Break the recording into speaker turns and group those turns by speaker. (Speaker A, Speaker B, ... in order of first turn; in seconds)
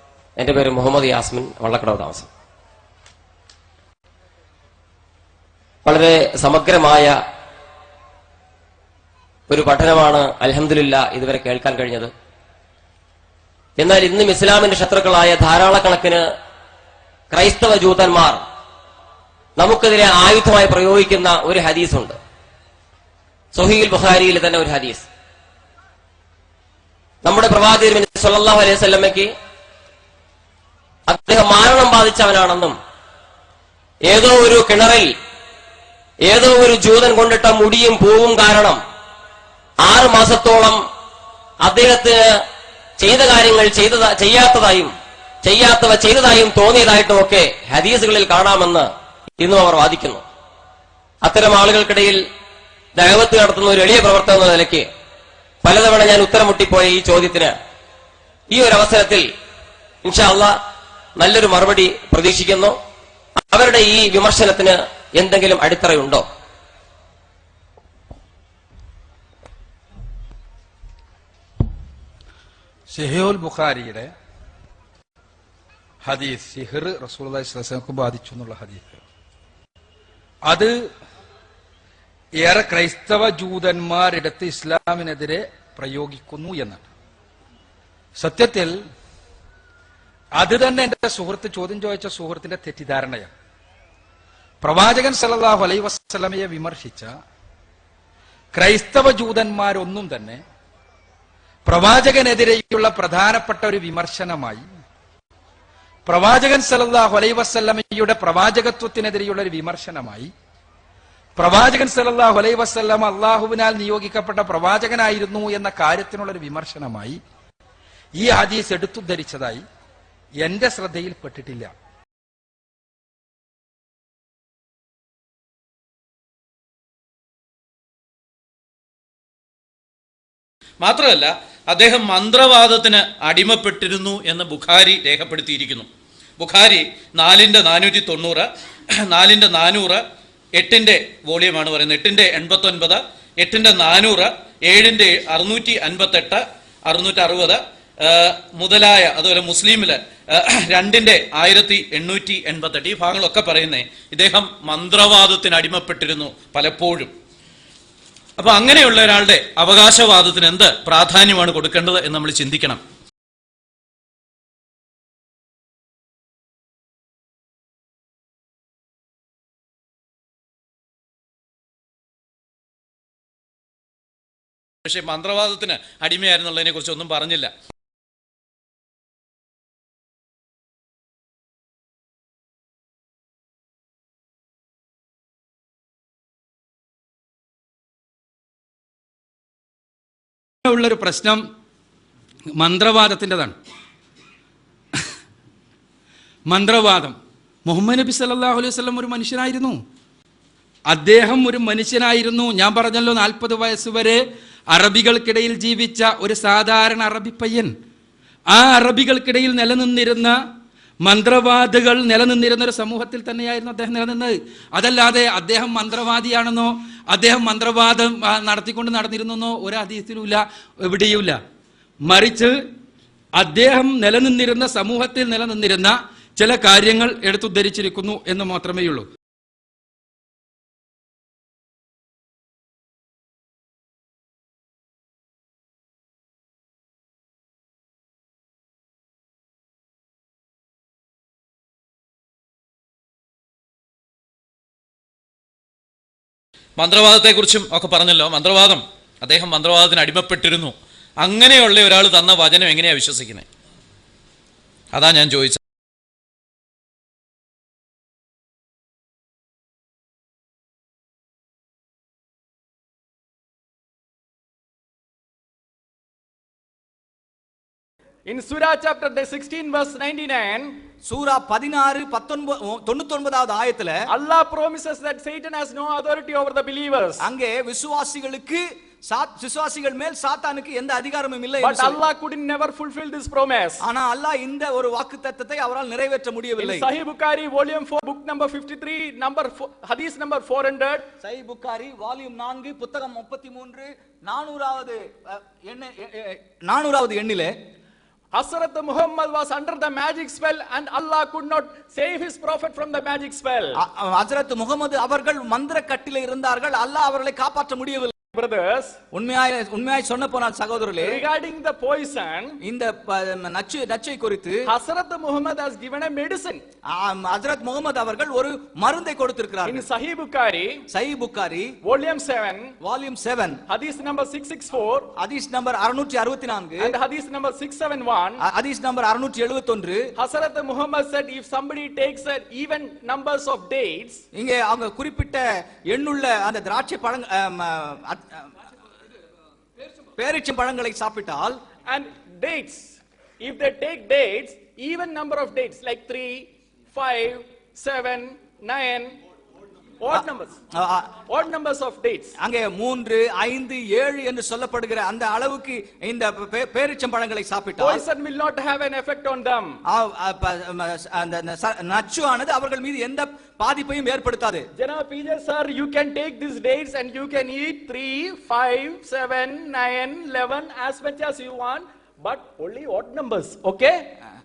Speaker A: 0.4-2.3, 5.8-7.1, 9.5-12.1, 13.8-16.2, 17.3-18.4, 19.6-22.2, 23.5-25.1, 27.2-29.3, 31.1-32.8, 34.1-35.1, 36.2-38.8, 39.8-40.8, 41.6-42.2, 43.0-48.9, 49.4-50.2, 51.2-52.2, 53.0-54.9, 55.6-57.5, 58.5-59.2, 60.0-60.5, 61.2-62.7, 63.5-66.2
Speaker B: 72.9-74.1, 76.0-79.0, 80.5-80.7, 82.4-86.9, 88.2-88.8, 90.3-93.3, 94.6-97.1, 98.5-100.4, 101.7-104.6, 106.0-110.3, 111.4-117.2, 118.2-119.6, 120.4-121.7, 190.7-191.4, 192.5-193.5, 196.5-199.8, 200.9-207.7, 208.5-210.4, 211.0-221.4, 222.0-222.6, 223.3-229.1
Speaker C: 130.8-135.9, 136.4-138.5, 139.1-140.0, 140.6-157.1, 158.4-162.8, 174.8-177.5, 246.8-253.5, 254.9-255.6
Speaker D: 268.2-270.7, 274.1-277.2, 281.6-283.8, 286.6-291.1, 298.3-303.8, 308.3-309.0, 311.0-312.6, 314.7-316.6, 319.6-320.8, 321.8-322.7, 323.7-325.1, 326.8-328.4, 330.2-334.2, 341.9-349.1, 350.0-350.6, 351.3-352.3, 357.8-359.8, 364.8-374.0
Speaker E: 271.1-274.0, 277.2-282.0, 283.8-286.9, 291.2-297.5, 303.8-308.1, 309.1-311.2, 312.6-314.6, 316.9-319.8, 320.9-321.7, 322.8-323.6, 325.2-326.9, 328.4-330.0, 334.3-338.5, 340.2-341.6, 350.1-351.1, 352.4-358.0, 359.9-364.7